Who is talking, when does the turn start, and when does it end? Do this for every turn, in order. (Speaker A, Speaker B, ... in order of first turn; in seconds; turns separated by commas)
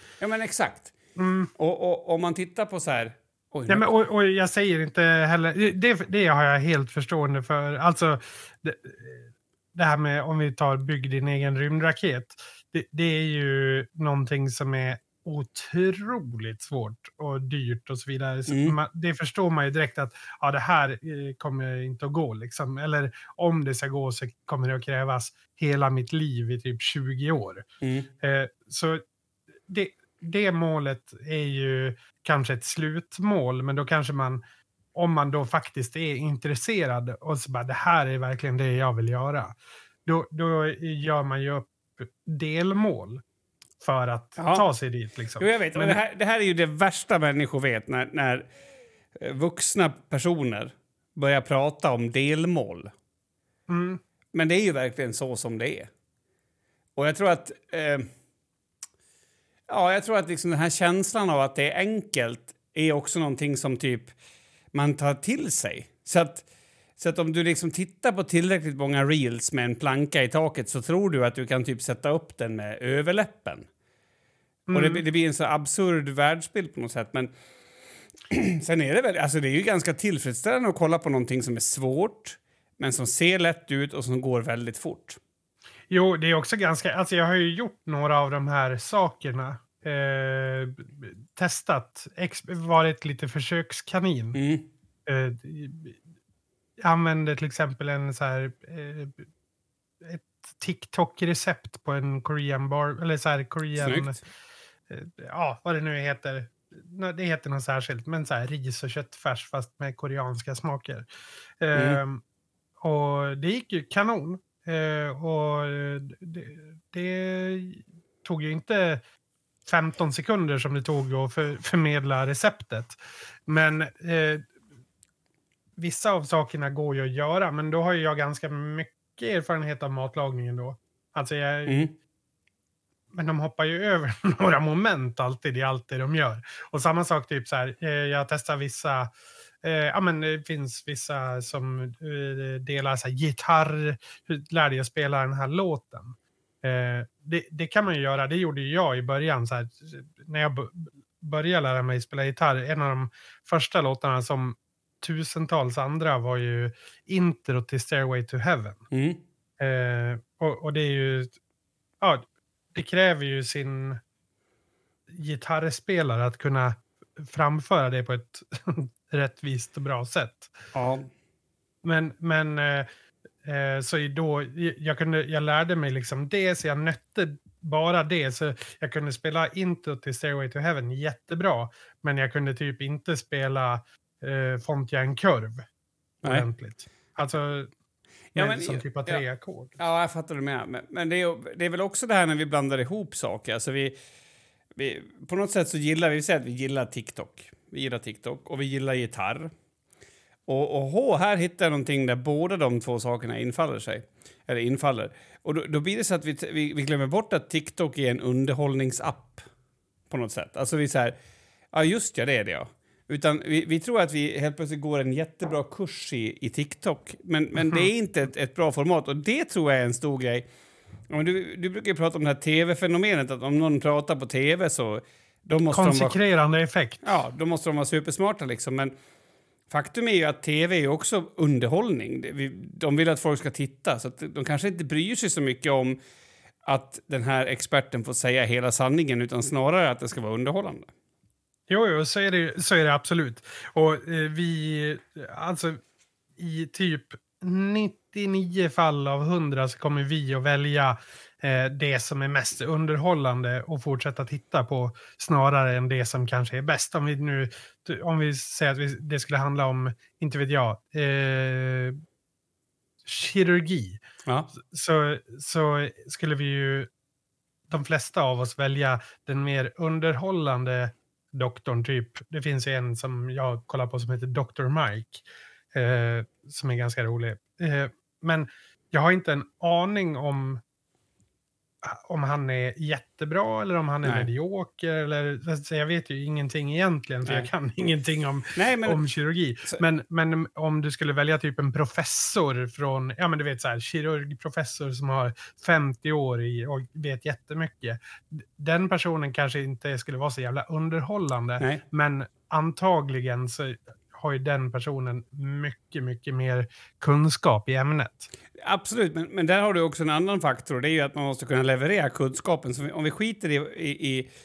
Speaker A: 0.2-0.9, Speaker B: 1.2-1.5, Speaker A: 1.6-3.9, Speaker B: 3.7-27.6, Speaker A: 18.5-18.8, Speaker A: 27.8-28.1, Speaker B: 28.2-29.0, Speaker B: 29.7-34.4, Speaker B: 35.0-43.2, Speaker B: 43.8-46.0, Speaker A: 44.4-44.6, Speaker A: 45.4-48.5, Speaker A: 49.2-52.9, Speaker B: 53.7-54.0, Speaker A: 54.3-55.9, Speaker A: 57.0-58.1, Speaker A: 59.7-64.1, Speaker A: 64.7-66.5, Speaker A: 67.0-73.7, Speaker B: 74.7-75.0, Speaker A: 74.7-77.3, Speaker A: 78.3-85.2, Speaker B: 85.9-94.4, Speaker A: 94.3-94.7, Speaker B: 95.1-96.0, Speaker B: 96.8-99.2, Speaker B: 100.0-104.2, Speaker A: 103.8-104.2, Speaker B: 104.9-111.1, Speaker B: 111.6-112.2, Speaker A: 111.7-112.0, Speaker B: 112.8-119.0, Speaker B: 119.7-124.5, Speaker B: 125.8-131.8, Speaker A: 131.7-131.9, Speaker B: 133.1-139.1, Speaker B: 139.6-158.8, Speaker A: 158.9-159.2, Speaker B: 159.6-161.3, Speaker B: 162.0-164.0, Speaker B: 165.1-170.5, Speaker A: 170.7-171.1, Speaker B: 171.8-172.9, Speaker B: 173.4-185.7, Speaker B: 186.2-187.7, Speaker A: 188.3-189.2, Speaker B: 188.3-189.8, Speaker A: 189.8-193.9, Speaker A: 194.8-199.5, Speaker A: 200.5-209.4, Speaker A: 210.1-211.2, Speaker A: 211.7-220.5, Speaker A: 221.1-226.2, Speaker B: 225.7-227.1, Speaker A: 227.0-228.9, Speaker A: 229.7-236.0, Speaker A: 236.7-240.9, Speaker B: 241.7-245.8, Speaker B: 246.4-262.0, Speaker B: 263.1-264.0, Speaker A: 264.3-264.5, Speaker B: 264.6-266.9, Speaker B: 267.7-280.6, Speaker B: 281.8-308.3, Speaker A: 284.0-284.3, Speaker A: 288.6-289.0, Speaker A: 308.6-314.3